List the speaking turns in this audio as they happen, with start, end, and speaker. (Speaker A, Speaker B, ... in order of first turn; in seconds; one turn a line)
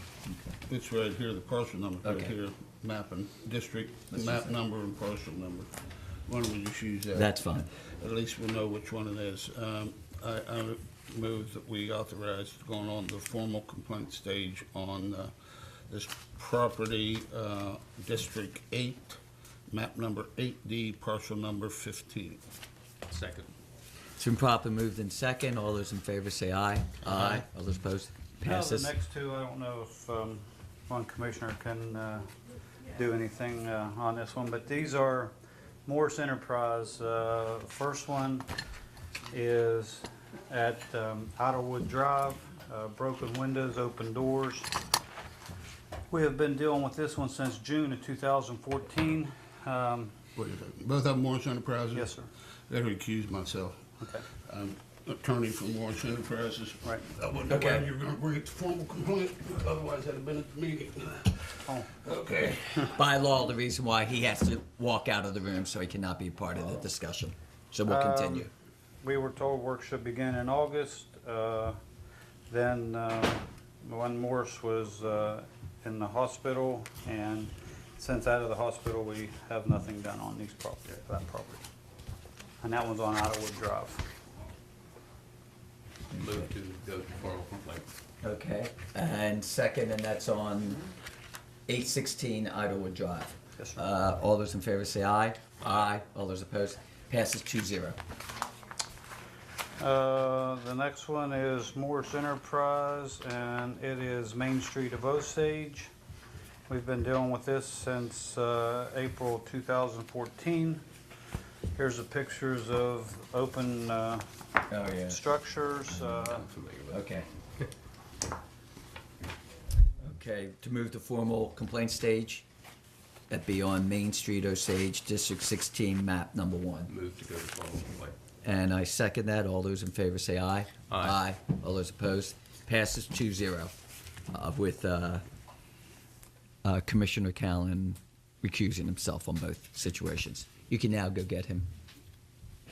Speaker A: 0.3-0.5
Speaker B: 0.7-22.4
Speaker A: 2.0-2.3
Speaker A: 4.1-4.5
Speaker A: 7.1-7.7
Speaker C: 23.1-23.5
Speaker A: 24.2-28.9
Speaker D: 28.4-32.3
Speaker D: 32.9-35.3
Speaker D: 35.9-38.5
Speaker D: 39.3-44.7
Speaker D: 46.1-50.1
Speaker B: 50.4-52.1
Speaker D: 51.9-52.3
Speaker B: 52.7-53.8
Speaker D: 54.0-54.2
Speaker B: 54.4-63.0
Speaker A: 57.5-57.8
Speaker D: 61.6-61.9
Speaker A: 62.9-68.5
Speaker D: 67.9-68.5
Speaker D: 69.0-71.8
Speaker D: 72.5-81.6
Speaker D: 82.6-84.0
Speaker C: 86.1-87.9
Speaker A: 88.2-90.8
Speaker A: 91.7-98.0
Speaker D: 99.8-105.9
Speaker D: 106.7-110.8
Speaker D: 111.7-114.2
Speaker A: 114.7-115.2
Speaker D: 115.0-116.4
Speaker C: 116.1-117.0
Speaker A: 116.9-117.3
Speaker A: 120.0-122.4
Speaker A: 123.3-126.9
Speaker C: 126.9-128.2
Speaker A: 128.4-133.8
Speaker C: 130.9-131.2
Speaker A: 134.3-135.2
Speaker A: 136.6-141.7